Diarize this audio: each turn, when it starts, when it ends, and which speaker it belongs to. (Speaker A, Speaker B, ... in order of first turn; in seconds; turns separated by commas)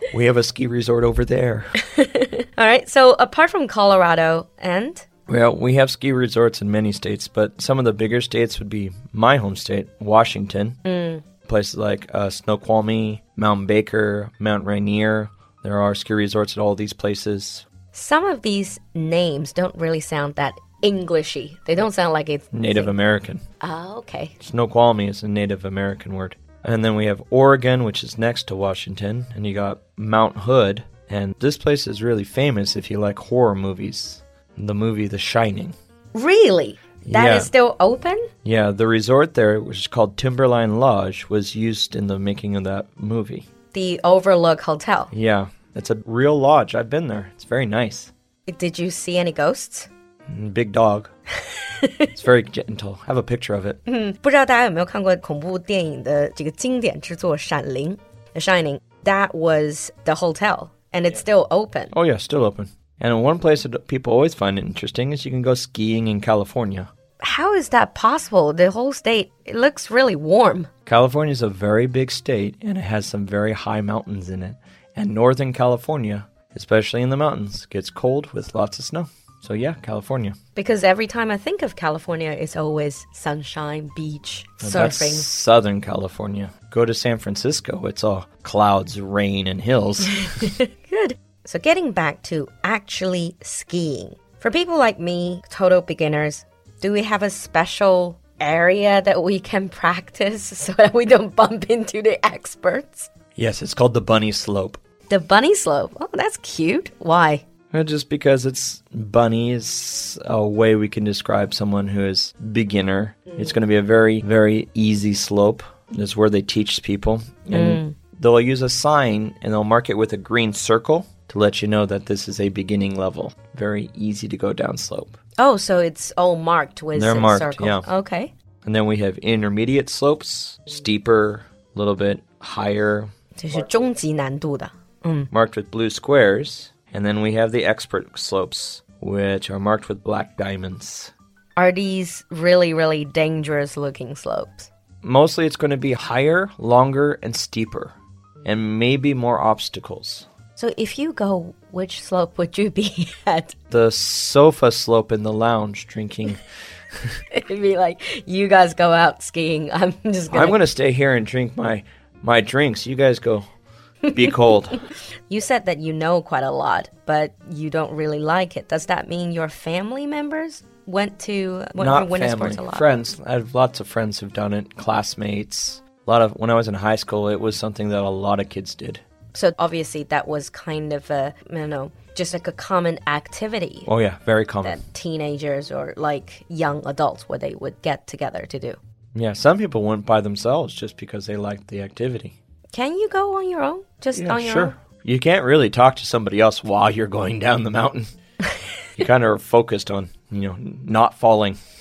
Speaker A: 0.1-1.7, Speaker B: 1.8-5.1, Speaker A: 5.3-10.8, Speaker B: 10.8-11.2, Speaker A: 11.5-17.7, Speaker B: 17.9-22.9, Speaker A: 22.5-23.4, Speaker B: 23.6-24.4, Speaker A: 24.4-35.7, Speaker B: 36.1-38.3, Speaker A: 37.0-37.5, Speaker A: 38.4-43.5, Speaker B: 43.7-45.1, Speaker A: 45.1-48.1, Speaker B: 48.5-49.9, Speaker A: 50.3-51.1, Speaker B: 51.5-52.1, Speaker A: 52.1-53.8, Speaker B: 53.9-61.9, Speaker A: 61.9-66.9, Speaker B: 67.2-70.7, Speaker A: 70.9-80.4, Speaker B: 80.6-85.3, Speaker A: 84.6-90.5, Speaker B: 90.0-103.1, Speaker A: 103.4-104.8, Speaker B: 105.1-107.4, Speaker A: 107.7-125.2, Speaker B: 117.5-118.0, Speaker B: 125.4-128.3, Speaker A: 126.9-127.9, Speaker A: 128.7-133.1, Speaker B: 133.4-135.3, Speaker A: 135.3-141.1, Speaker B: 141.6-144.7, Speaker A: 145.0-150.3, Speaker B: 150.6-153.6, Speaker A: 153.7-156.4, Speaker B: 157.3-160.6, Speaker A: 160.3-163.4, Speaker B: 164.1-164.4, Speaker A: 164.1-164.8, Speaker B: 165.3-172.9, Speaker A: 171.8-179.0, Speaker B: 179.3-183.9, Speaker A: 183.9-184.8, Speaker B: 184.6-188.8, Speaker A: 189.2-192.4, Speaker B: 192.7-194.8, Speaker A: 194.2-198.1, Speaker B: 198.4-198.7, Speaker A: 199.0-201.6